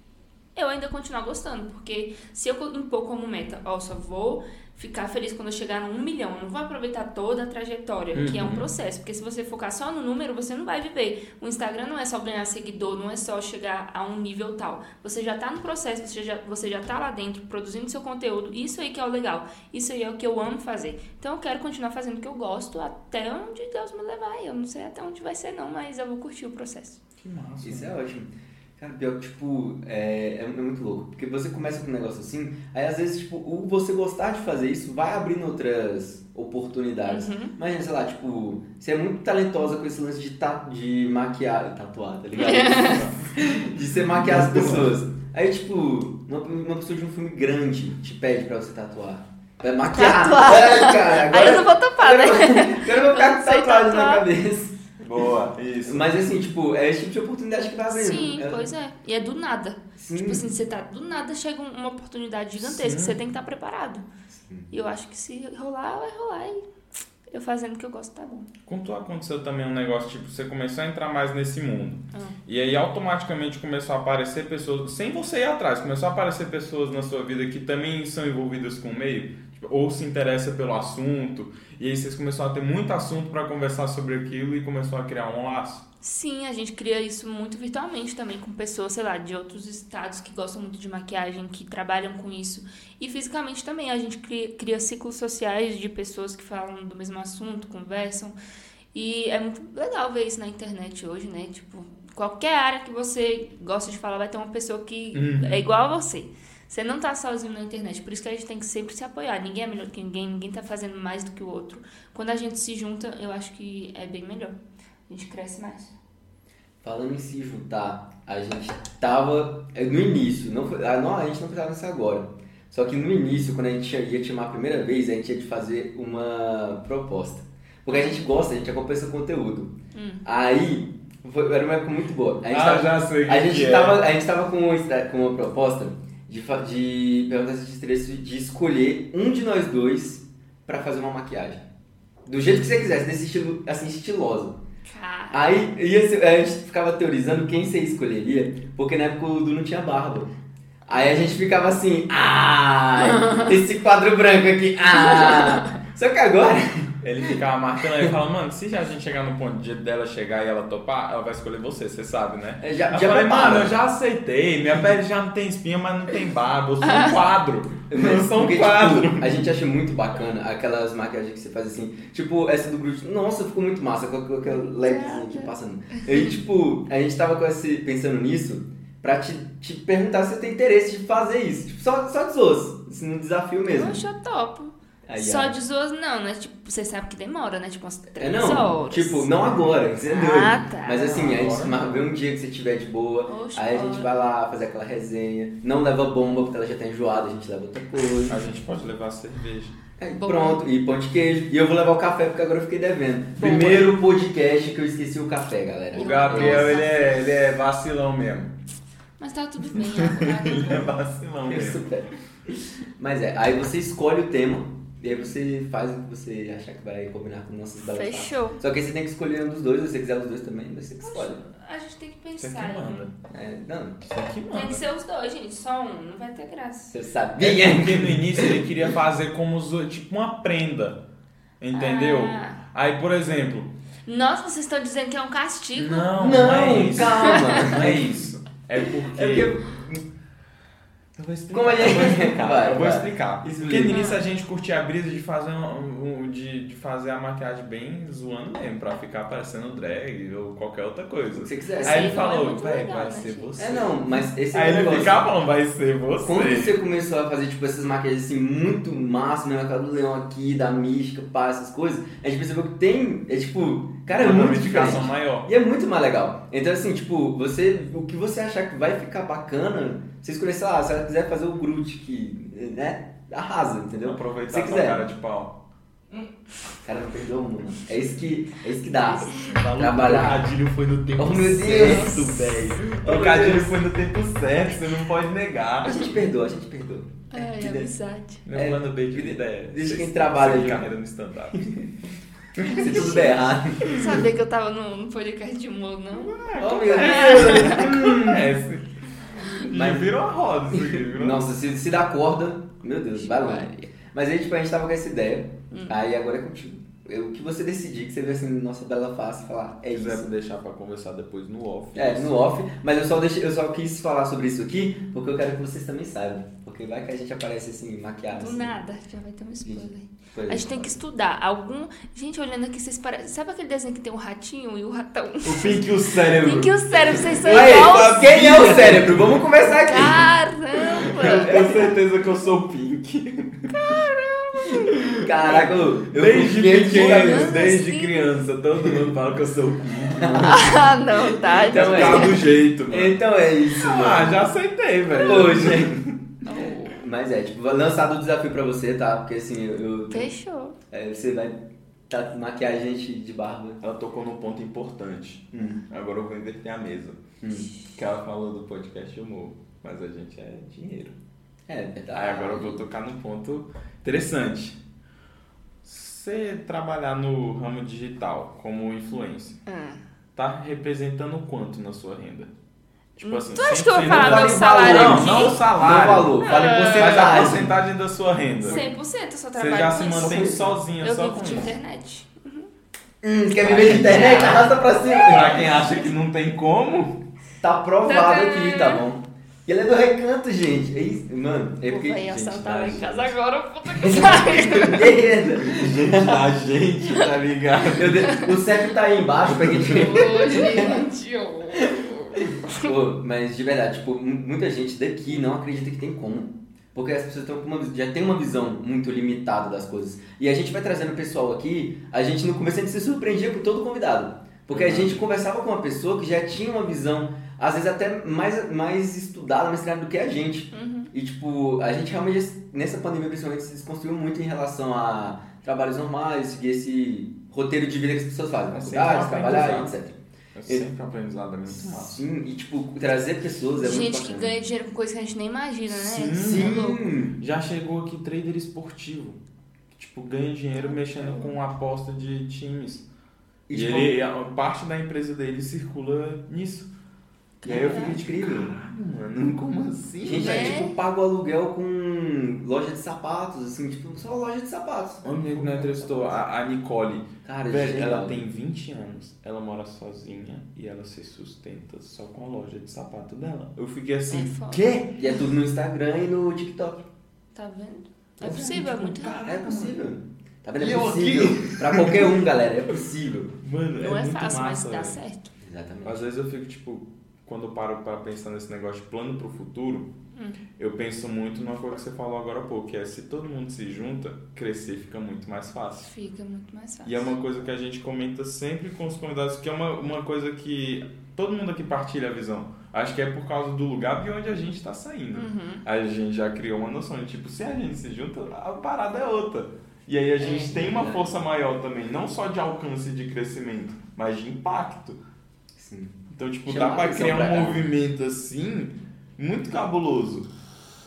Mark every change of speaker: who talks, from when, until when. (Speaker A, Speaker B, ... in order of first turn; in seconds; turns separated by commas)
Speaker A: 0.6-27.0, Speaker B: 8.1-8.7, Speaker B: 27.2-27.9, Speaker C: 27.6-54.9, Speaker A: 37.1-37.5, Speaker A: 42.4-43.1, Speaker B: 42.8-43.1, Speaker B: 44.0-44.9, Speaker A: 49.9-54.3, Speaker B: 55.0-56.1, Speaker C: 55.9-58.7, Speaker A: 57.9-64.1, Speaker C: 60.0-60.5, Speaker B: 62.6-63.2, Speaker C: 64.3-64.7, Speaker A: 64.7-66.6, Speaker A: 67.3-68.5, Speaker B: 68.7-85.8, Speaker A: 86.0-98.3, Speaker A: 98.9-114.5, Speaker B: 105.1-105.6, Speaker A: 115.1-115.9, Speaker C: 116.8-141.6, Speaker A: 127.9-128.2, Speaker A: 129.9-130.2, Speaker B: 132.5-134.0, Speaker C: 142.3-144.6, Speaker A: 144.9-145.6, Speaker C: 145.3-150.3, Speaker C: 150.9-157.4, Speaker A: 155.0-155.7, Speaker B: 157.0-169.4, Speaker C: 162.6-163.8, Speaker A: 166.8-167.2, Speaker C: 167.9-184.0, Speaker A: 174.4-176.3, Speaker A: 183.7-189.4, Speaker C: 185.1-185.5, Speaker C: 188.2-198.4, Speaker A: 190.1-191.1, Speaker B: 190.9-192.1, Speaker A: 193.3-194.2, Speaker B: 198.3-199.8, Speaker C: 200.0-206.8, Speaker A: 200.1-200.6, Speaker A: 203.4-203.9, Speaker A: 205.9-207.3, Speaker B: 205.9-208.5, Speaker A: 209.2-210.9, Speaker B: 209.7-211.9, Speaker C: 211.4-212.1, Speaker C: 213.0-221.4, Speaker A: 217.8-218.6, Speaker A: 221.0-223.1, Speaker B: 222.4-223.1, Speaker C: 223.3-224.0, Speaker B: 224.0-224.8, Speaker A: 224.5-226.9, Speaker C: 226.9-228.6, Speaker B: 227.4-231.0, Speaker B: 231.6-233.7, Speaker A: 231.7-232.6, Speaker A: 234.1-236.1, Speaker B: 235.8-239.6, Speaker C: 236.2-238.1, Speaker A: 237.3-237.7, Speaker C: 239.0-240.0, Speaker B: 241.2-254.0, Speaker C: 241.5-244.0, Speaker A: 243.9-244.2, Speaker C: 251.3-252.3, Speaker A: 251.8-253.8, Speaker C: 253.6-255.3, Speaker B: 254.5-256.8, Speaker C: 256.2-275.1, Speaker B: 264.1-265.5, Speaker B: 274.0-275.6, Speaker C: 276.9-280.4, Speaker A: 279.3-279.6, Speaker B: 279.5-286.1, Speaker C: 281.2-283.8, Speaker A: 281.7-282.6, Speaker C: 285.8-287.9, Speaker A: 287.3-288.4, Speaker B: 288.4-291.7, Speaker C: 288.5-290.9, Speaker C: 291.5-291.9, Speaker C: 292.6-294.1, Speaker B: 292.6-293.3, Speaker A: 292.6-298.1, Speaker B: 293.9-294.2, Speaker B: 296.2-298.9, Speaker C: 296.6-298.5, Speaker B: 299.5-301.5, Speaker C: 299.6-300.1, Speaker C: 300.7-310.3, Speaker A: 303.1-303.9, Speaker A: 305.7-305.9, Speaker B: 309.9-312.4, Speaker C: 311.9-318.8, Speaker A: 318.3-328.9, Speaker C: 319.6-321.0, Speaker B: 325.4-329.4, Speaker C: 327.4-330.3, Speaker A: 329.8-331.9, Speaker B: 330.9-333.9, Speaker C: 331.1-331.9, Speaker A: 333.7-334.9, Speaker B: 334.7-340.9, Speaker C: 335.2-337.6, Speaker A: 336.9-338.3, Speaker C: 340.1-340.8, Speaker A: 340.4-342.4, Speaker C: 341.5-344.4, Speaker B: 341.5-346.2, Speaker C: 345.2-346.0, Speaker A: 346.4-347.0, Speaker C: 346.9-350.3, Speaker A: 350.1-350.8, Speaker C: 350.9-353.8, Speaker B: 353.8-357.2, Speaker C: 355.5-355.8, Speaker C: 357.4-357.7, Speaker B: 357.9-361.1, Speaker C: 361.7-362.8, Speaker B: 362.1-364.8, Speaker B: 365.8-369.6, Speaker A: 369.7-370.0, Speaker B: 370.4-372.5, Speaker B: 373.1-378.8, Speaker A: 373.2-375.6, Speaker C: 374.0-377.8, Speaker A: 376.4-377.5, Speaker A: 378.6-382.7, Speaker B: 379.6-381.7, Speaker C: 380.1-380.8, Speaker C: 383.2-385.8, Speaker B: 383.6-384.7, Speaker A: 383.7-385.9, Speaker B: 385.2-387.2, Speaker C: 387.6-393.3, Speaker A: 388.0-389.0, Speaker A: 391.9-395.2, Speaker C: 393.9-396.6, Speaker B: 395.6-398.4, Speaker C: 397.9-401.0, Speaker A: 398.2-398.6, Speaker A: 399.8-402.9, Speaker C: 401.8-430.9, Speaker B: 414.7-415.2, Speaker A: 420.7-421.1, Speaker B: 428.7-429.9, Speaker B: 430.6-432.2, Speaker C: 431.7-434.5, Speaker A: 433.8-437.0, Speaker B: 435.9-439.4, Speaker C: 436.4-437.4, Speaker B: 439.9-443.1, Speaker A: 440.8-441.6, Speaker C: 443.7-444.2, Speaker B: 443.7-446.9, Speaker B: 447.6-450.9, Speaker C: 447.6-448.8, Speaker A: 447.7-448.1, Speaker C: 450.2-456.4, Speaker A: 450.3-450.9, Speaker B: 455.2-464.6, Speaker C: 457.4-458.4, Speaker A: 464.3-465.4, Speaker C: 464.7-467.1, Speaker A: 467.6-469.4, Speaker B: 468.4-470.0, Speaker C: 468.4-473.6, Speaker B: 470.8-472.4, Speaker B: 473.6-475.2, Speaker A: 474.0-475.5, Speaker C: 475.6-476.2, Speaker B: 476.0-480.1, Speaker B: 480.8-486.1, Speaker A: 486.1-487.3, Speaker B: 487.0-505.2, Speaker A: 495.3-495.8, Speaker C: 500.4-501.3, Speaker C: 505.8-507.9, Speaker B: 506.3-510.5